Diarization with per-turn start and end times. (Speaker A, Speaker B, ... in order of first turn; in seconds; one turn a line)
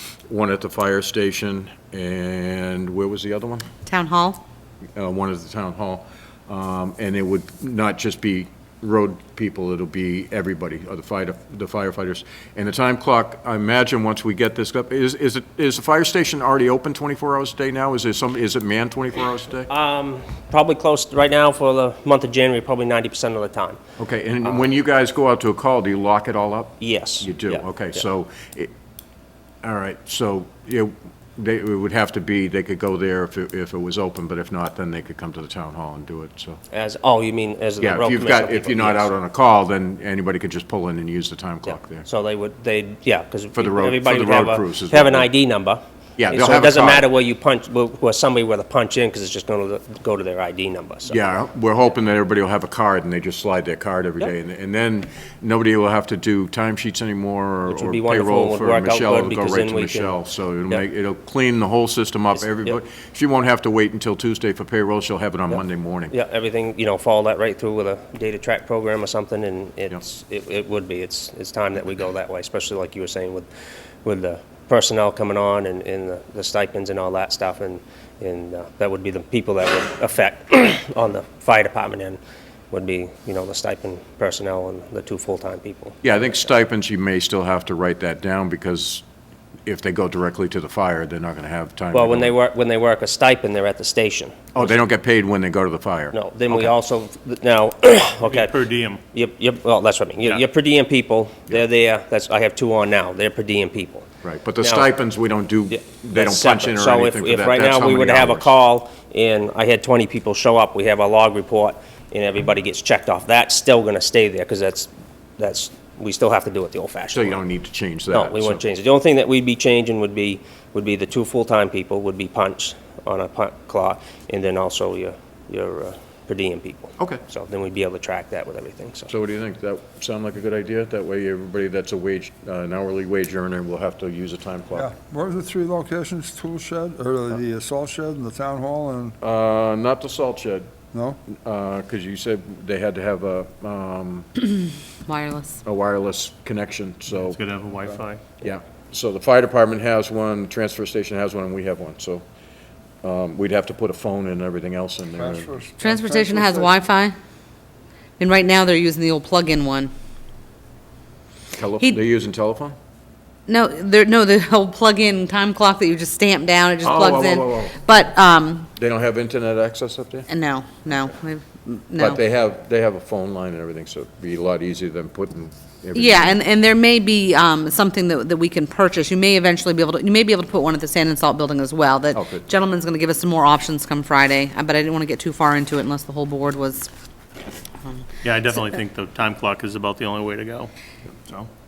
Speaker A: 0.3-3.7
Speaker B: 3.9-4.4
Speaker A: 5.0-19.7
Speaker C: 19.7-23.8
Speaker A: 24.0-28.7
Speaker C: 26.8-27.6
Speaker A: 29.6-36.6
Speaker C: 36.7-39.1
Speaker A: 37.8-42.0
Speaker C: 41.7-51.2
Speaker A: 43.5-45.3
Speaker A: 46.2-47.0
Speaker A: 51.1-66.1
Speaker C: 57.7-60.2
Speaker C: 62.4-62.8
Speaker C: 66.1-73.5
Speaker C: 74.0-82.2
Speaker C: 82.7-86.0
Speaker A: 86.0-89.0
Speaker A: 89.7-92.3
Speaker C: 91.9-94.7
Speaker A: 94.5-96.7
Speaker C: 96.1-98.6
Speaker D: 98.2-99.0
Speaker C: 99.1-104.1
Speaker A: 104.2-108.5
Speaker C: 104.6-104.9
Speaker C: 105.7-117.4
Speaker A: 117.1-118.6
Speaker C: 118.1-129.1
Speaker A: 129.1-134.9
Speaker E: 134.7-139.2
Speaker A: 139.2-140.7
Speaker E: 140.9-141.2
Speaker A: 141.3-144.3
Speaker B: 145.1-145.6
Speaker A: 145.6-147.4
Speaker D: 147.2-148.2
Speaker A: 148.4-152.2
Speaker A: 153.0-155.5
Speaker E: 155.2-156.8
Speaker B: 155.8-157.1
Speaker B: 158.2-159.9
Speaker A: 161.5-162.8
Speaker B: 163.5-168.7
Speaker A: 166.8-167.8
Speaker A: 168.8-170.3
Speaker B: 170.3-172.2
Speaker A: 172.0-176.3
Speaker B: 175.9-186.9
Speaker A: 182.1-182.4
Speaker D: 188.2-190.7